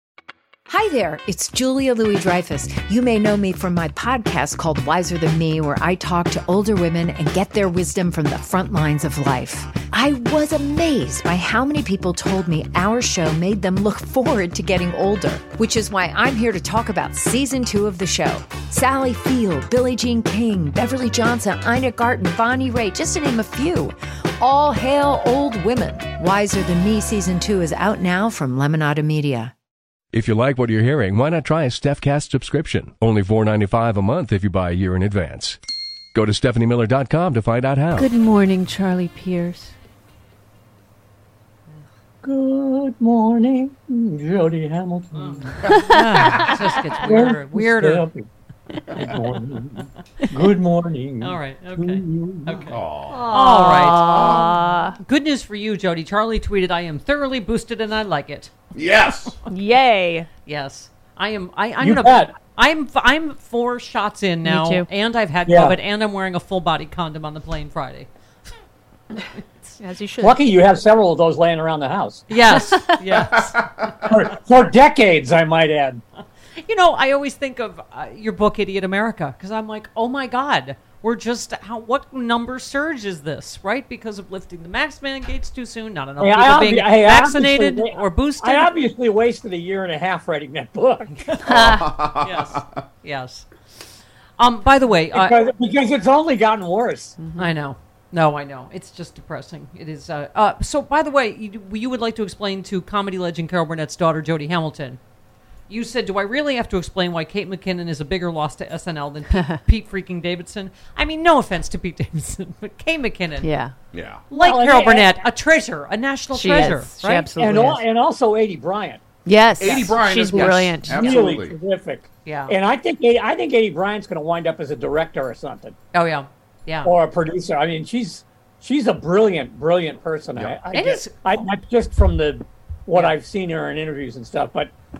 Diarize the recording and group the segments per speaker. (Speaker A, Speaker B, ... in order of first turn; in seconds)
Speaker A: 0.7-29.5
Speaker B: 30.1-35.6, 36.1-38.1
Speaker C: 37.9-39.7, 53.1-55.0, 59.5-60.3, 64.4-64.9, 69.8-70.4, 91.6-91.8, 97.2-97.5, 113.4-113.7, 116.3-117.8, 119.2-121.3
Speaker D: 42.2-48.3, 49.0-52.7, 61.8-62.3, 65.5-65.8, 70.2-72.7, 74.0-76.0, 86.2-91.1, 95.1-97.2, 114.3-115.3, 117.4-119.0, 121.0-125.8, 126.8-134.7
Speaker E: 45.1-48.1, 49.0-49.2, 51.2-59.3, 60.5-68.1, 69.4-69.7, 72.3-74.1, 76.6-88.7, 91.1-93.5, 94.4-95.4, 97.3-105.0, 105.7-113.5, 114.3-117.7, 122.2-122.5, 125.9-126.9, 130.7-131.2
Speaker F: 52.7-53.2, 54.1-54.5, 58.7-59.3, 91.5-92.6, 113.9-114.2, 119.6-121.5